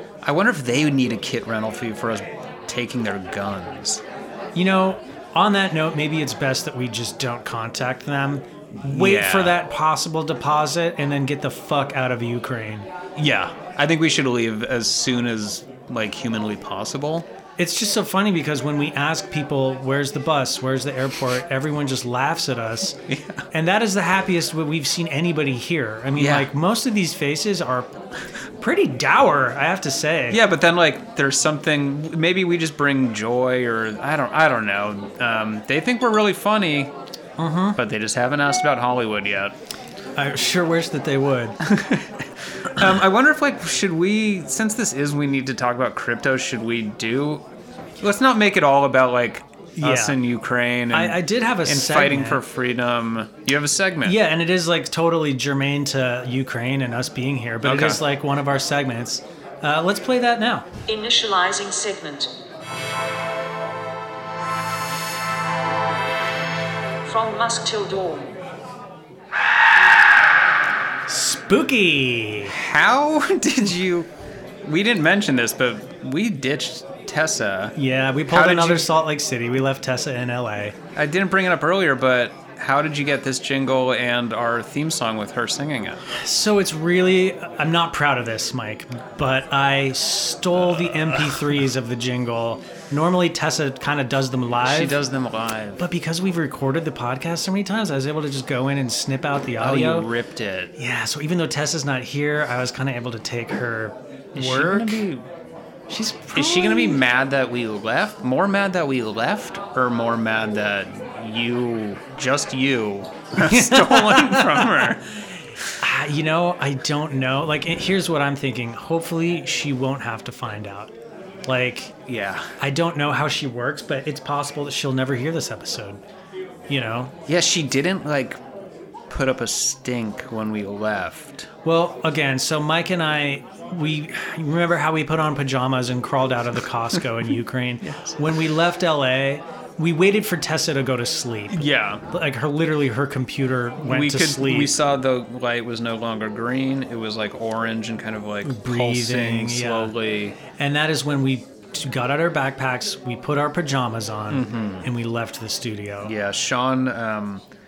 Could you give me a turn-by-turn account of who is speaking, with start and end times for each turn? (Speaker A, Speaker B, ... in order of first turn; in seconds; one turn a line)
Speaker A: 0.2-4.0
Speaker B: 4.5-12.9
Speaker A: 8.8-9.6
Speaker A: 13.2-17.3
Speaker B: 17.6-23.0
Speaker A: 23.1-23.4
Speaker B: 23.5-27.9
Speaker A: 26.1-26.5
Speaker B: 28.6-30.4
Speaker A: 30.3-36.9
Speaker B: 37.4-37.8
Speaker A: 37.8-39.5
Speaker B: 40.2-41.6
Speaker A: 41.6-47.5
Speaker A: 48.0-54.2
Speaker B: 49.8-50.2
Speaker B: 50.9-52.4
Speaker B: 54.0-60.7
Speaker A: 57.6-58.0
Speaker C: 60.9-62.3
Speaker C: 67.0-68.3
Speaker B: 71.1-72.6
Speaker A: 72.5-74.1
Speaker A: 74.7-77.8
Speaker B: 77.8-80.8
Speaker A: 78.3-78.9
Speaker A: 81.0-86.0
Speaker B: 86.1-95.0
Speaker A: 90.8-91.4
Speaker A: 94.6-95.8
Speaker B: 95.8-100.1
Speaker A: 99.6-100.7
Speaker B: 100.8-105.1
Speaker A: 104.4-105.3
Speaker B: 105.9-107.0
Speaker A: 106.3-115.0
Speaker B: 113.4-115.0
Speaker B: 115.8-120.9
Speaker B: 121.5-121.9
Speaker A: 122.1-122.5
Speaker B: 122.6-126.0
Speaker B: 126.7-127.1
Speaker A: 127.3-128.4
Speaker A: 129.1-131.5
Speaker B: 131.6-144.7
Speaker A: 137.9-138.2
Speaker A: 141.5-142.0
Speaker A: 143.8-150.4
Speaker B: 148.4-149.9
Speaker B: 150.6-156.1
Speaker A: 154.3-154.9
Speaker A: 156.0-157.4